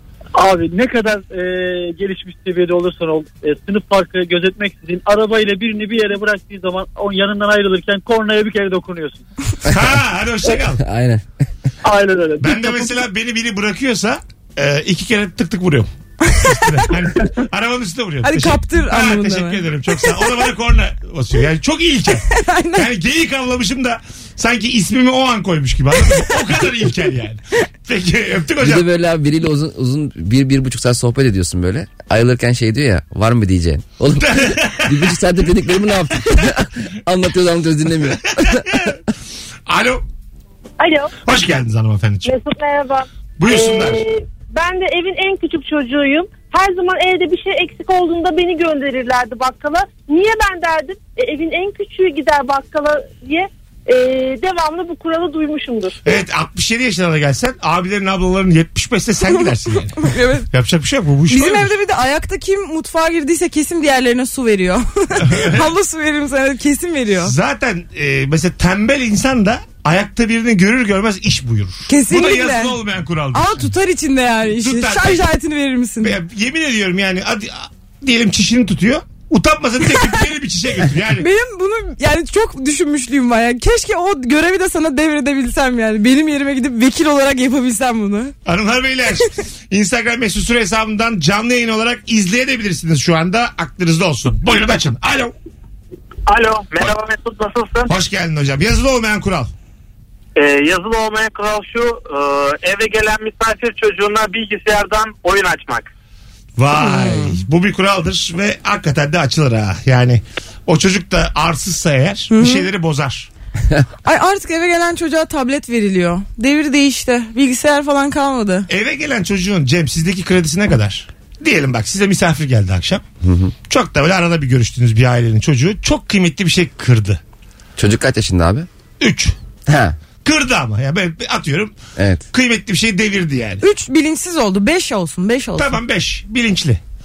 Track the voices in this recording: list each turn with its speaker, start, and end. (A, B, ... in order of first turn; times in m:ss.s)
0:00.3-0:09.2 A
0:09.7-0:10.8 B
0:10.8-0:11.2 C
0:11.8-0:12.9 A
0:12.4-0:28.8 B
0:16.2-0:16.9 D
0:18.2-0:20.2 D
0:22.3-0:22.9 D
0:28.6-0:38.8 C
0:34.2-0:35.2 B
0:39.7-0:40.0 B
0:40.8-0:41.1 E
0:41.2-0:42.3 B
0:42.2-0:56.2 E
0:43.4-0:44.0 B
0:56.0-1:01.7 B
1:00.0-1:00.4 D
1:01.3-1:07.3 D
1:05.2-1:05.7 B
1:07.2-1:13.7 B
1:11.9-1:12.8 D
1:13.3-1:16.1 D
1:14.5-1:15.2 B
1:16.0-1:21.3 B
1:21.2-1:28.3 D
1:28.4-1:35.3 B
1:36.3-1:37.9 F
1:37.9-1:39.5 B
1:40.4-1:45.9 F
1:46.6-1:53.3 B
1:46.7-1:47.3 D
1:52.3-1:52.7 D
1:54.0-1:58.7 D
1:58.7-2:03.0 B
2:03.2-2:03.5 C
2:03.7-2:07.2 B
2:07.8-2:08.7 C
2:09.0-2:09.3 B
2:09.6-2:10.0 C
2:10.2-2:11.7 B
2:12.0-2:12.2 C
2:12.3-2:13.6 B
2:13.6-2:15.8 D
2:15.6-2:16.8 B